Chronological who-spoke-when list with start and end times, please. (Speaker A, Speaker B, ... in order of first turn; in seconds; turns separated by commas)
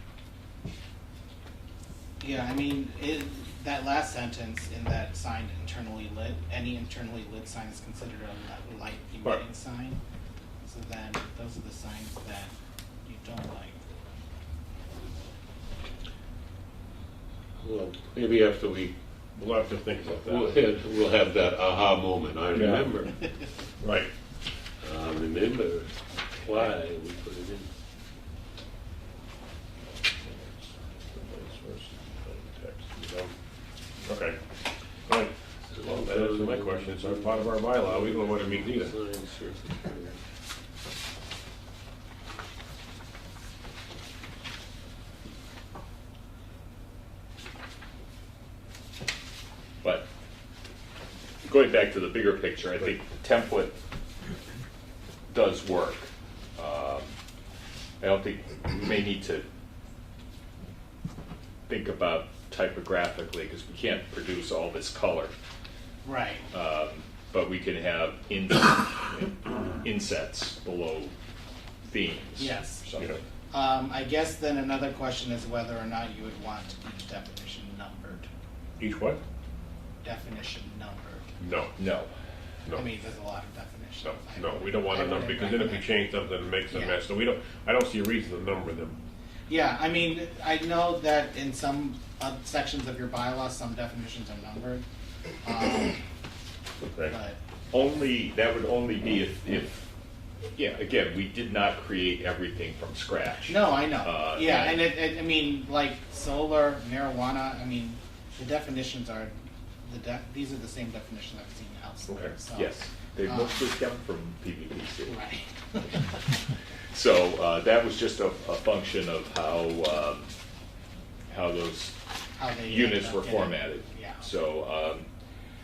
Speaker A: 2.2-10.0, Speaker A: 10.6-12.5, Speaker A: 13.0-13.8, Speaker B: 17.6-19.0, Speaker C: 19.4-20.9, Speaker B: 20.0-23.2, Speaker C: 22.5-23.0, Speaker C: 23.8-24.1, Speaker B: 24.8-27.7, Speaker C: 30.2-33.3, Speaker C: 34.0-34.4, Speaker C: 35.0-39.0, Speaker B: 35.7-40.2, Speaker D: 49.8-50.1, Speaker D: 51.4-53.8, Speaker D: 55.3-57.1, Speaker D: 58.0-59.5, Speaker D: 61.7-65.3, Speaker A: 66.0-66.5, Speaker D: 66.5-71.1, Speaker D: 71.9-73.2, Speaker A: 72.4-72.8, Speaker A: 73.5-78.3, Speaker C: 78.8-79.2, Speaker A: 80.0-81.3, Speaker C: 81.4-81.7, Speaker D: 81.8-82.1, Speaker A: 82.7-85.9, Speaker C: 84.0-89.0, Speaker A: 86.7-87.0, Speaker A: 89.5-94.8, Speaker A: 95.4-96.0, Speaker C: 96.8-97.1, Speaker A: 97.1-97.4, Speaker D: 97.7-99.9, Speaker D: 100.5-104.9, Speaker A: 103.5-109.3, Speaker A: 109.8-112.7, Speaker D: 112.1-115.2, Speaker A: 113.2-113.7, Speaker A: 115.1-116.2, Speaker D: 116.9-120.3, Speaker D: 121.3-122.0, Speaker A: 122.4-124.3, Speaker D: 122.6-125.1